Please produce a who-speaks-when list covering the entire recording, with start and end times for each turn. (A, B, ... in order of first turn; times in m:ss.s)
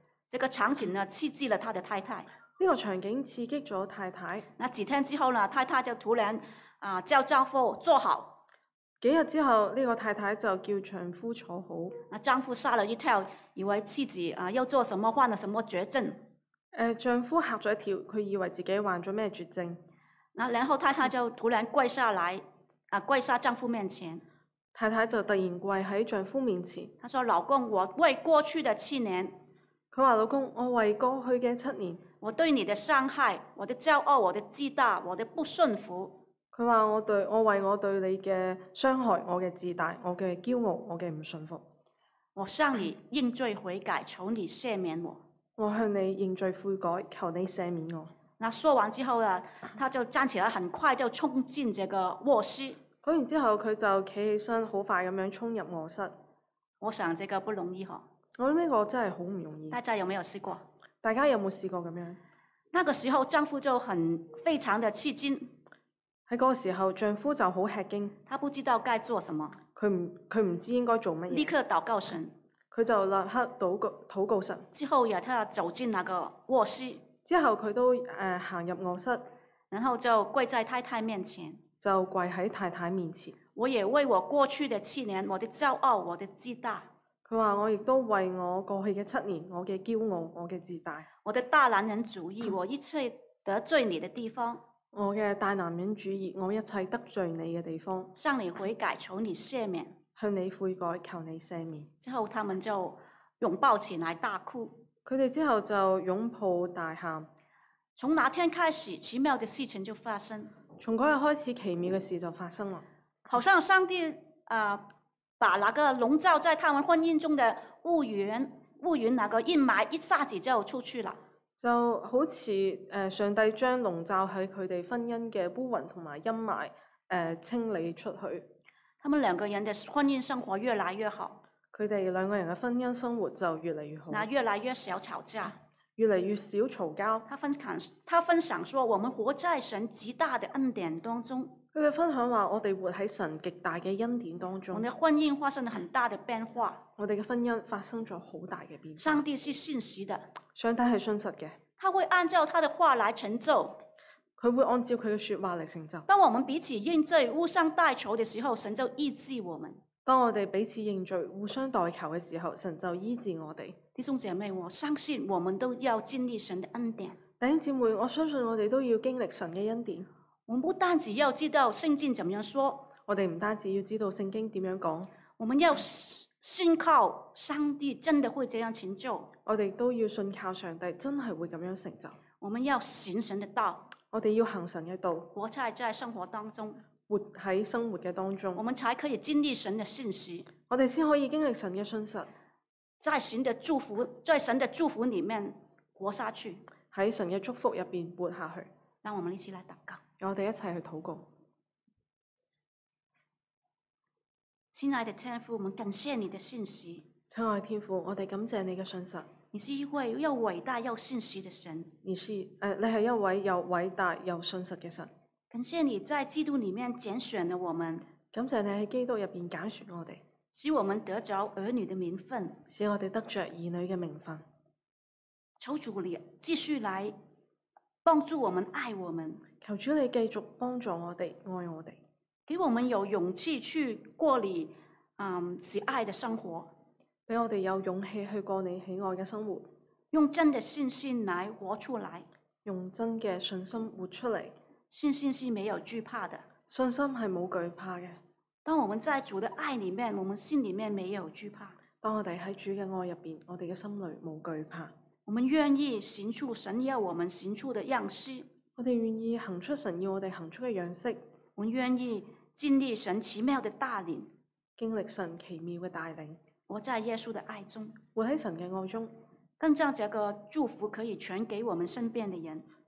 0:00.3-0:02.3 A
0:02.6-0:04.5 B
0:04.6-0:08.4 A
0:09.0-0:11.9 B
0:12.1-0:16.2 A
0:16.7-0:19.8 B
0:20.3-0:24.2 A
0:24.7-0:26.9 B
0:27.0-0:29.3 A
0:29.9-0:32.0 B
0:32.2-0:36.2 A
0:36.5-0:41.6 B
0:42.4-0:45.2 A
0:45.6-0:48.1 B
0:48.4-0:52.8 A
0:53.0-0:56.1 B
0:56.8-0:58.0 A
0:58.4-0:59.8 B
0:59.7-1:00.6 A
1:01.0-1:02.2 B
1:02.7-1:05.5 A
1:06.3-1:08.2 B
1:08.3-1:09.6 A
1:09.8-1:11.5 B
1:11.3-1:12.3 A
1:12.7-1:14.7 B
1:14.7-1:17.0 A
1:17.2-1:19.2 B
1:19.7-1:21.6 A
1:21.8-1:23.4 B
1:23.6-1:26.9 A
1:27.2-1:31.1 B
1:31.2-1:34.6 A
1:34.9-1:38.1 B
1:38.1-1:40.0 A
1:40.2-1:41.9 B
1:42.0-1:44.8 A
1:45.0-1:47.3 B
1:48.0-1:50.5 A
1:50.8-1:52.8 B
1:53.2-1:54.8 A
1:55.4-2:01.2 A
2:01.6-2:08.4 B
2:09.0-2:11.4 A
2:11.7-2:14.3 B
2:14.1-2:15.6 A
2:16.0-2:17.2 B
2:17.2-2:21.6 A
2:21.7-2:24.9 B
2:24.7-2:26.8 A
2:27.0-2:29.2 B
2:29.0-2:30.3 A
2:30.5-2:31.6 B
2:31.8-2:33.8 A
2:34.4-2:36.0 B
2:36.1-2:39.8 A
2:40.0-2:43.8 B
2:43.9-2:47.2 A
2:47.4-2:50.1 B
2:50.5-2:52.9 A
2:53.0-2:55.1 B
2:55.4-2:59.3 A
2:59.4-3:02.2 B
3:02.4-3:03.9 A
3:04.1-3:05.3 B
3:05.3-3:06.8 A
3:07.1-3:08.6 B
3:08.5-3:10.5 A
3:10.7-3:12.3 B
3:13.0-3:16.6 A
3:16.9-3:18.7 B
3:19.0-3:20.0 A
3:20.2-3:21.2 B
3:24.7-3:27.0 A
3:27.3-3:29.3 B
3:29.5-3:31.9 A
3:32.0-3:35.1 B
3:35.5-3:38.0 A
3:38.3-3:40.2 B
3:40.5-3:42.6 A
3:42.7-3:44.4 B
3:45.6-3:47.1 A
3:48.0-3:49.4 A
3:49.6-3:52.0 B
3:52.5-3:56.7 A
3:57.3-3:59.7 B
4:00.1-4:02.2 A
4:02.6-4:04.5 B
4:04.9-4:06.4 A
4:06.7-4:08.2 B
4:08.6-4:11.8 A
4:12.0-4:14.9 B
4:15.2-4:18.5 A
4:18.8-4:21.2 B
4:21.6-4:24.3 A
4:24.8-4:26.4 B
4:26.7-4:28.0 A
4:28.1-4:29.1 B
4:29.6-4:32.6 A